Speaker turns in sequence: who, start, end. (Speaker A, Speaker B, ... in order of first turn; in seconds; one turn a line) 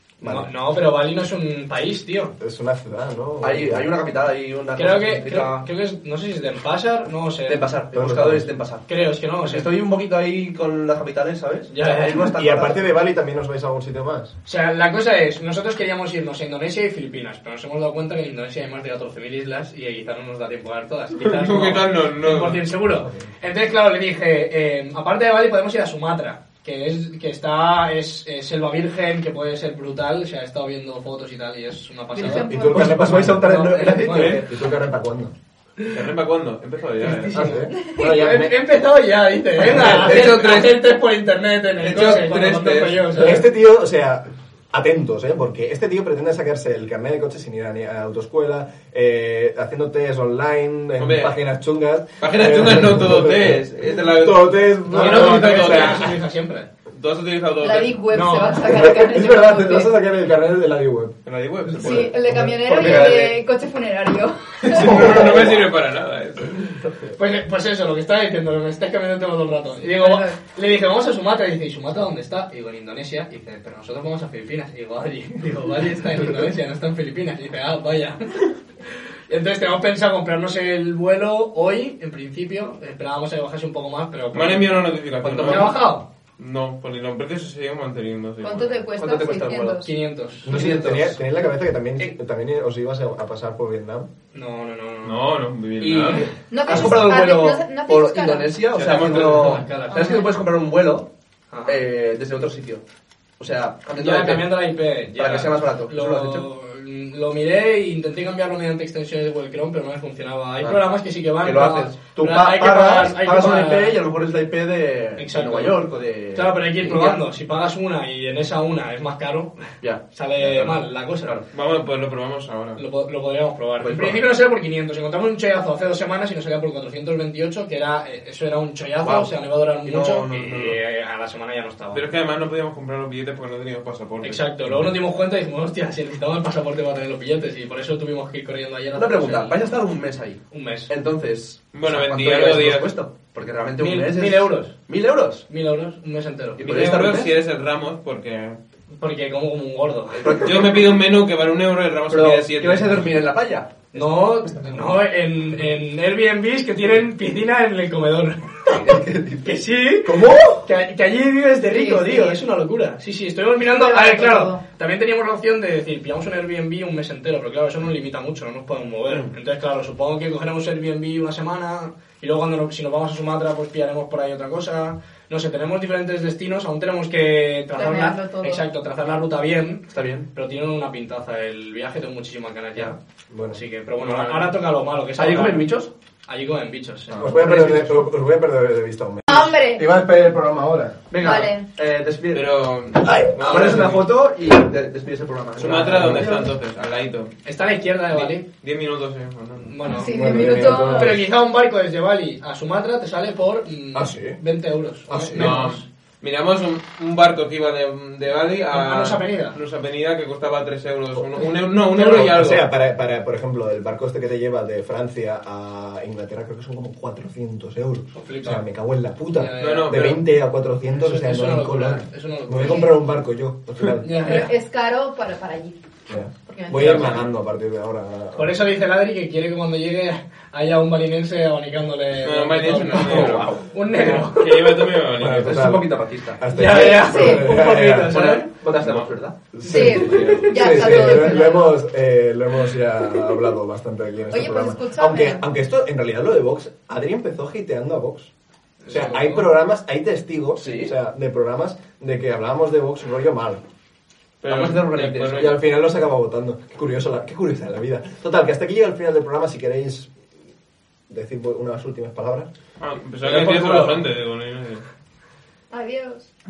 Speaker A: 0.2-0.5
Speaker B: 0.2-2.4
Speaker A: 2.4-3.9
Speaker C: 3.4-5.7
Speaker B: 4.8-7.7
Speaker C: 7.5-8.9
Speaker A: 7.9-8.5
Speaker B: 8.9-9.7
Speaker C: 9.4-12.8
Speaker B: 11.7-12.2
Speaker A: 12.2-14.3
Speaker B: 14.5-34.4
Speaker D: 21.2-22.6
Speaker E: 32.1-33.1
Speaker A: 32.2-35.3
Speaker C: 32.7-34.5
Speaker D: 35.9-37.5
Speaker B: 37.0-43.5
Speaker A: 37.3-38.6
Speaker E: 37.8-38.2
Speaker C: 39.6-40.8
Speaker D: 40.0-40.6
Speaker C: 41.8-42.6
Speaker D: 41.8-43.1
Speaker A: 43.1-56.1
Speaker D: 51.0-51.4
Speaker D: 52.2-56.1
Speaker B: 54.9-56.7
Speaker D: 56.9-58.0
Speaker E: 57.6-59.9
Speaker B: 58.1-58.7
Speaker A: 58.7-63.2
Speaker D: 61.3-62.1
Speaker E: 61.8-65.0
Speaker C: 62.6-63.3
Speaker D: 64.6-66.8
Speaker A: 64.7-65.6
Speaker B: 67.2-78.5
Speaker E: 69.9-70.4
Speaker B: 79.3-84.8
Speaker D: 84.3-85.8
Speaker C: 85.2-85.7
Speaker B: 85.4-86.1
Speaker D: 86.4-88.9
Speaker E: 88.4-89.9
Speaker C: 89.0-89.8
Speaker B: 89.8-90.9
Speaker A: 90.5-94.1
Speaker C: 90.5-91.1
Speaker B: 94.3-95.2
Speaker D: 95.0-96.3
Speaker C: 95.8-101.1
Speaker E: 96.5-98.5
Speaker D: 98.7-99.6
Speaker B: 98.9-100.3
Speaker E: 99.9-100.4
Speaker B: 101.5-101.8
Speaker C: 101.7-102.8
Speaker C: 103.4-104.6
Speaker B: 104.0-114.0
Speaker C: 105.2-106.5
Speaker C: 111.4-117.2
Speaker B: 115.2-121.4
Speaker C: 119.8-121.5
Speaker D: 121.5-122.8
Speaker B: 122.8-132.1
Speaker C: 123.8-124.2
Speaker C: 129.0-129.3
Speaker C: 129.8-130.8
Speaker D: 131.9-134.5
Speaker B: 134.2-139.6
Speaker C: 138.9-145.4
Speaker B: 140.5-140.9
Speaker D: 141.7-142.9
Speaker B: 143.8-144.8
Speaker B: 145.5-147.0
Speaker C: 146.6-147.3
Speaker D: 146.6-148.6
Speaker B: 149.0-150.6
Speaker C: 150.1-150.9
Speaker D: 150.4-153.1
Speaker C: 152.1-154.0
Speaker B: 153.9-183.0
Speaker C: 158.7-159.4
Speaker C: 160.1-160.6
Speaker E: 161.7-162.4
Speaker E: 163.7-164.6
Speaker E: 177.8-178.7
Speaker C: 179.9-180.3
Speaker A: 183.3-183.6
Speaker B: 183.5-185.7
Speaker D: 184.0-184.5
Speaker C: 185.2-185.9
Speaker B: 186.3-187.9
Speaker C: 187.1-187.8
Speaker A: 187.2-191.1
Speaker E: 189.3-189.9
Speaker C: 191.1-192.5
Speaker E: 191.2-191.7
Speaker D: 192.3-194.1
Speaker C: 193.0-196.4
Speaker D: 195.6-197.3
Speaker B: 197.4-198.4
Speaker D: 198.2-199.7
Speaker B: 199.6-205.8
Speaker E: 199.8-201.2
Speaker A: 200.0-201.2
Speaker A: 203.9-204.4
Speaker A: 205.1-205.7
Speaker D: 205.3-212.7
Speaker B: 208.7-209.6
Speaker B: 211.9-212.3
Speaker A: 212.0-224.2
Speaker B: 218.1-218.6
Speaker B: 219.3-220.0
Speaker D: 219.6-220.2
Speaker B: 220.9-223.0
Speaker B: 224.0-224.5
Speaker E: 224.2-225.8
Speaker A: 226.1-228.5
Speaker E: 226.5-227.1
Speaker D: 226.8-227.2
Speaker B: 228.3-234.8
Speaker D: 232.2-233.6
Speaker D: 234.1-235.6
Speaker A: 235.2-238.1
Speaker C: 235.3-236.4
Speaker B: 236.5-238.5
Speaker E: 236.7-237.5
Speaker C: 237.9-240.5
Speaker D: 238.8-239.1
Speaker A: 239.5-248.3
Speaker E: 239.7-241.8
Speaker D: 239.9-240.9
Speaker E: 244.3-245.4
Speaker B: 248.8-249.5
Speaker A: 248.9-253.6
Speaker C: 250.6-250.9
Speaker D: 254.4-255.6
Speaker C: 254.4-255.5
Speaker A: 255.3-260.1
Speaker A: 261.1-262.5
Speaker D: 262.8-264.9
Speaker A: 263.3-264.0
Speaker E: 265.7-266.3